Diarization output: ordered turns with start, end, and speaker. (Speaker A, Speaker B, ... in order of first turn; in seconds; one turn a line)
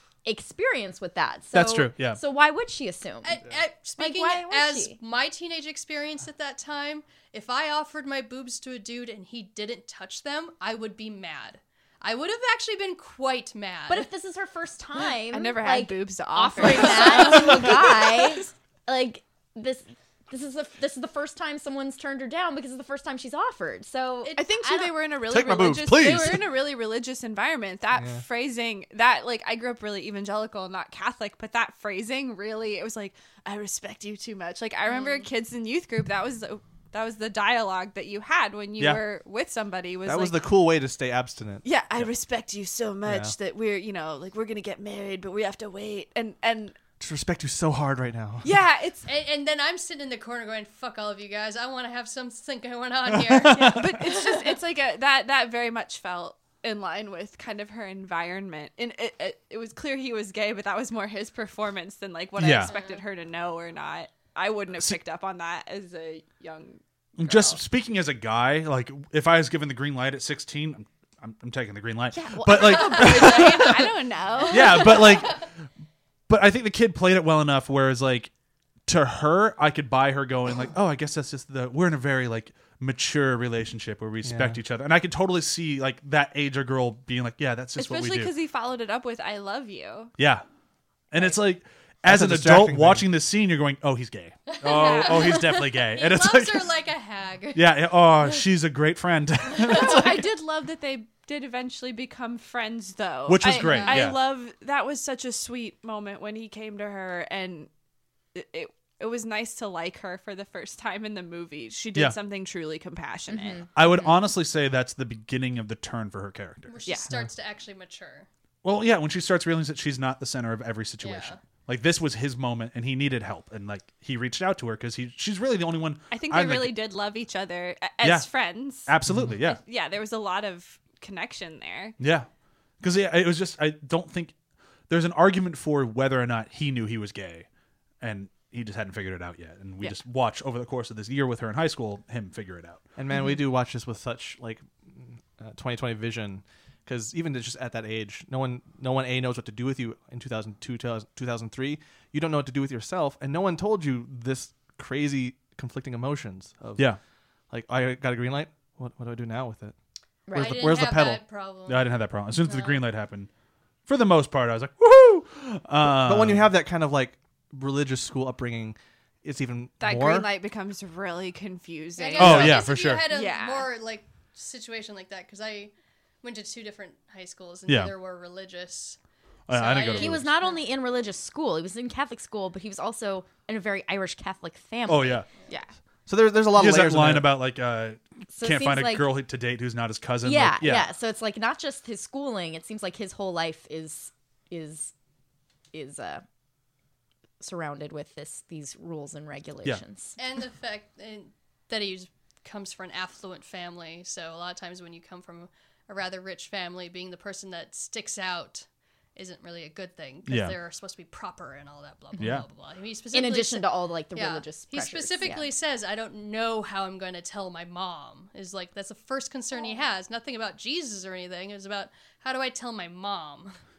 Speaker A: 0.2-3.4
Speaker B: 1.5-2.2
Speaker C: 3.2-14.1
Speaker A: 4.0-5.0
Speaker A: 13.9-25.0
Speaker D: 15.3-18.4
Speaker C: 24.2-24.6
Speaker D: 24.4-40.4
Speaker E: 25.2-26.5
Speaker E: 40.0-42.0
Speaker D: 41.6-46.8
Speaker E: 43.0-43.3
Speaker E: 47.0-48.5
Speaker D: 48.4-49.1
Speaker C: 49.0-54.4
Speaker B: 53.2-53.9
Speaker D: 53.5-67.6
Speaker B: 62.4-62.7
Speaker B: 67.2-75.5
Speaker D: 72.1-75.4
Speaker B: 76.3-78.3
Speaker B: 78.9-88.3
Speaker E: 84.2-84.6
Speaker D: 87.8-90.1
Speaker B: 90.2-90.4
Speaker B: 91.1-96.7
Speaker E: 92.0-93.1
Speaker C: 94.6-97.7
Speaker D: 94.7-95.4
Speaker B: 97.5-100.3
Speaker D: 99.6-107.7
Speaker B: 103.3-104.2
Speaker C: 103.6-104.1
Speaker D: 108.3-113.7
Speaker A: 113.3-113.7
Speaker B: 113.7-116.8
Speaker C: 116.7-118.3
Speaker B: 118.6-126.8
Speaker C: 121.0-121.4
Speaker D: 126.1-131.9
Speaker B: 128.0-129.6
Speaker E: 129.1-129.4
Speaker B: 132.0-132.3
Speaker B: 132.8-134.3
Speaker B: 134.9-137.5
Speaker B: 138.0-142.8
Speaker E: 142.9-156.9
Speaker A: 143.1-143.4
Speaker E: 157.5-159.7
Speaker A: 160.3-160.8
Speaker E: 160.3-161.2
Speaker C: 160.3-162.8
Speaker B: 161.7-163.3
Speaker B: 163.9-166.5
Speaker E: 165.8-170.3
Speaker D: 169.8-173.7
Speaker C: 172.0-179.0
Speaker B: 172.2-173.1
Speaker B: 177.7-177.9
Speaker B: 179.5-180.3
Speaker C: 179.5-180.5
Speaker A: 179.8-185.2
Speaker B: 184.9-185.2
Speaker E: 186.1-187.3
Speaker B: 186.5-190.8
Speaker A: 188.3-189.1
Speaker A: 190.2-194.9
Speaker A: 195.7-196.2
Speaker A: 197.4-200.2
Speaker C: 200.2-223.6
Speaker B: 210.3-210.6
Speaker B: 212.2-212.4
Speaker A: 213.1-215.5